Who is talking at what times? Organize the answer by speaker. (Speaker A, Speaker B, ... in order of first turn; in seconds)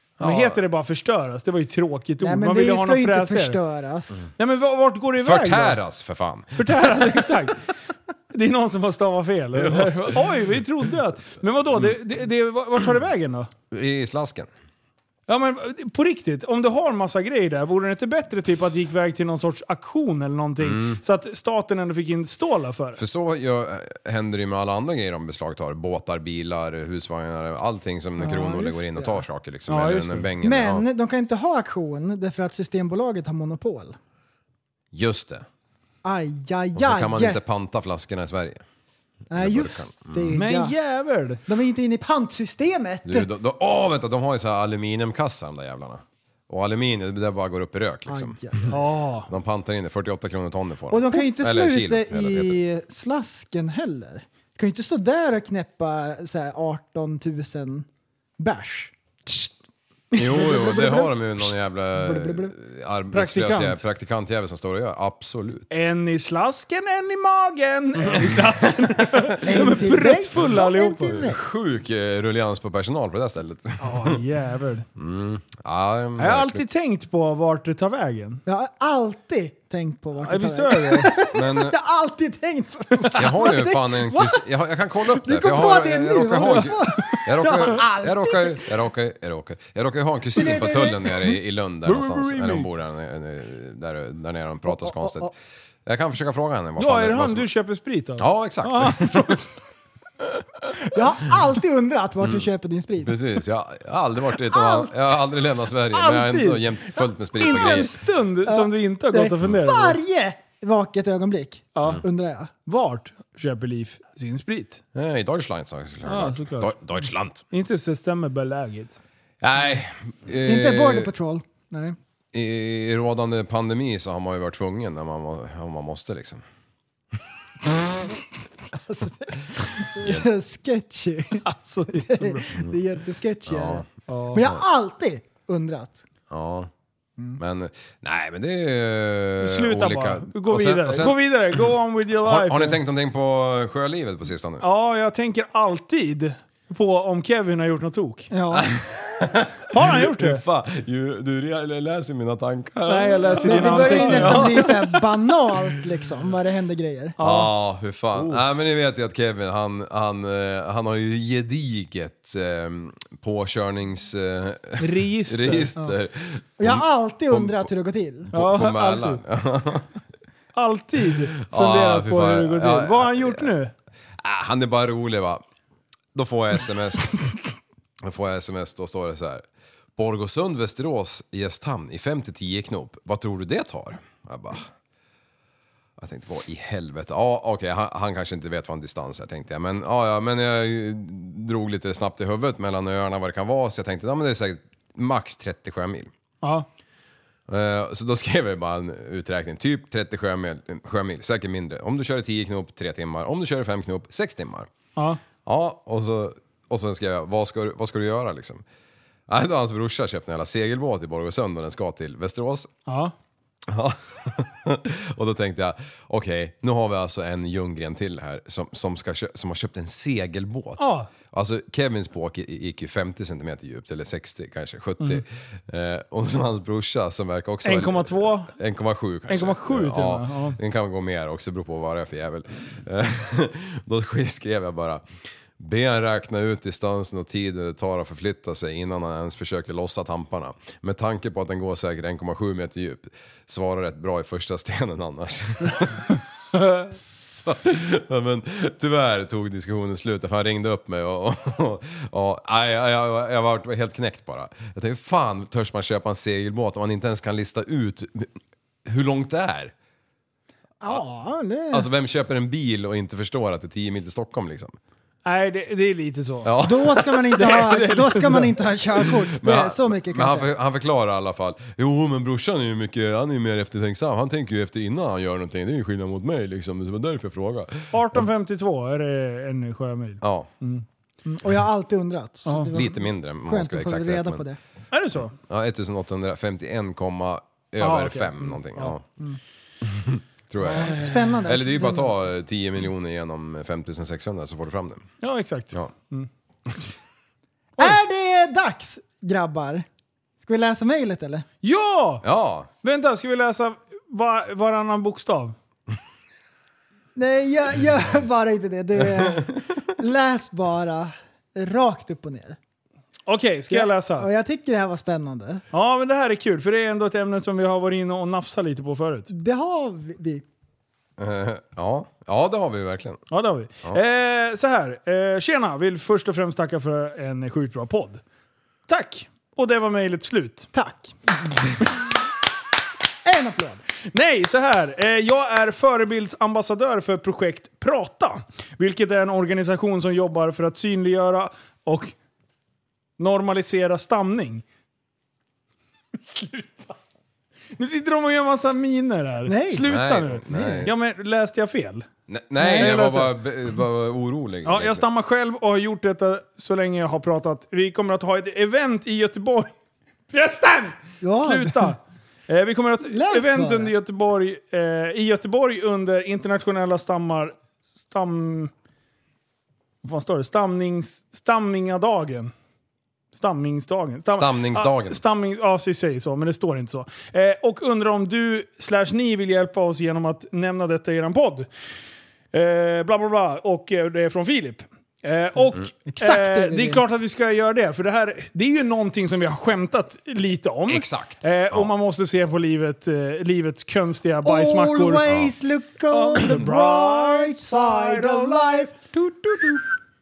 Speaker A: 0.2-0.6, 5.2-7.0, 9.6-10.4, 13.7-14.5, 20.6-21.0, 23.0-30.9, 34.9-35.5, 36.8-38.6, 39.3-40.4, 43.1-48.7, 49.3-52.6, 60.1-65.7, 68.1-69.3, 71.1-74.2, 75.0-76.6, 81.3-81.8, 83.2-95.3, 95.9-97.5, 98.2-99.4, 100.2-100.7, 102.2-102.5, 103.0-108.0, 115.0-117.4, 119.4-121.1, 122.3-126.4, 129.9-130.3, 133.5-134.6, 136.3-136.7, 137.4-141.6, 142.2-144.7, 148.5-155.1, 157.2-167.7, 168.3-169.9, 171.0-173.5, 174.2-175.4, 176.2-177.2, 178.0-179.4, 180.0-184.7, 186.0-196.1, 197.5-204.7, 205.4-208.6, 209.3-212.7, 213.7-235.1, 235.6-246.2, 247.3-259.7, 261.7-264.8, 266.4-267.6, 269.1-278.3, 280.2-280.5, 282.7-284.4, 285.3-289.0, 289.8-295.1, 302.2-302.7, 321.2-323.2, 349.8-350.9, 352.3-355.1, 374.3-375.2, 390.9-391.9
Speaker B: 0.2-3.6, 4.4-5.8, 6.6-7.6, 8.3-13.5, 15.3-23.0, 29.7-30.3, 40.4-41.4, 48.7-49.3, 63.1-63.8, 65.7-71.2, 73.8-74.9, 76.2-78.4, 80.2-81.1, 91.8-92.7, 96.8-99.5, 105.9-110.0, 111.8-112.0, 112.7-114.8, 116.1-116.7, 117.5-119.0, 131.4-132.5, 134.1-134.4, 139.4-142.8, 144.6-148.3, 149.7-150.4, 152.9-154.7, 157.2-157.5, 158.1-158.4, 164.8-165.7, 168.3-169.2, 170.6-173.7, 196.4-196.7, 205.0-205.2, 212.9-213.1, 220.8-221.1, 227.6-228.5, 229.3-230.6, 265.2-266.5, 267.4-268.5, 277.9-280.9, 284.9-285.3, 287.8-289.4, 290.7-291.1, 295.2-296.3, 301.6-302.2, 302.8-305.6, 313.3-314.3, 315.7-319.3, 323.3-328.2, 328.9-330.7, 334.1-342.1, 343.2-344.6, 346.1-347.0, 347.8-352.1, 352.7-353.3, 354.6-359.7, 360.3-368.7, 370.0-372.5, 373.3-381.7, 382.5-395.3, 396.1-398.9
Speaker C: 2.2-4.3, 28.2-29.2, 30.4-34.0, 36.0-37.4, 39.3-40.7, 41.5-43.3, 48.1-48.8, 50.9-57.9, 58.4-59.5, 60.3-61.2, 61.9-62.5, 69.4-71.4, 78.5-84.4, 85.1-88.7, 90.4-91.1, 94.7-95.3, 100.9-103.2, 104.5-104.9, 108.5-112.5, 120.4-122.0, 128.7-136.0, 148.3-148.7, 153.4-157.2, 166.6-168.3, 260.8-261.9, 266.6-270.5, 281.3-284.6, 290.6-292.1, 297.8-299.9, 300.4-301.5, 307.2-312.6, 313.7-315.6, 319.3-320.4, 330.7-331.3, 333.3-333.8, 349.5-349.9, 350.5-350.9, 352.6-353.2, 361.2-361.9, 363.1-363.9, 386.1-387.0, 394.4-399.8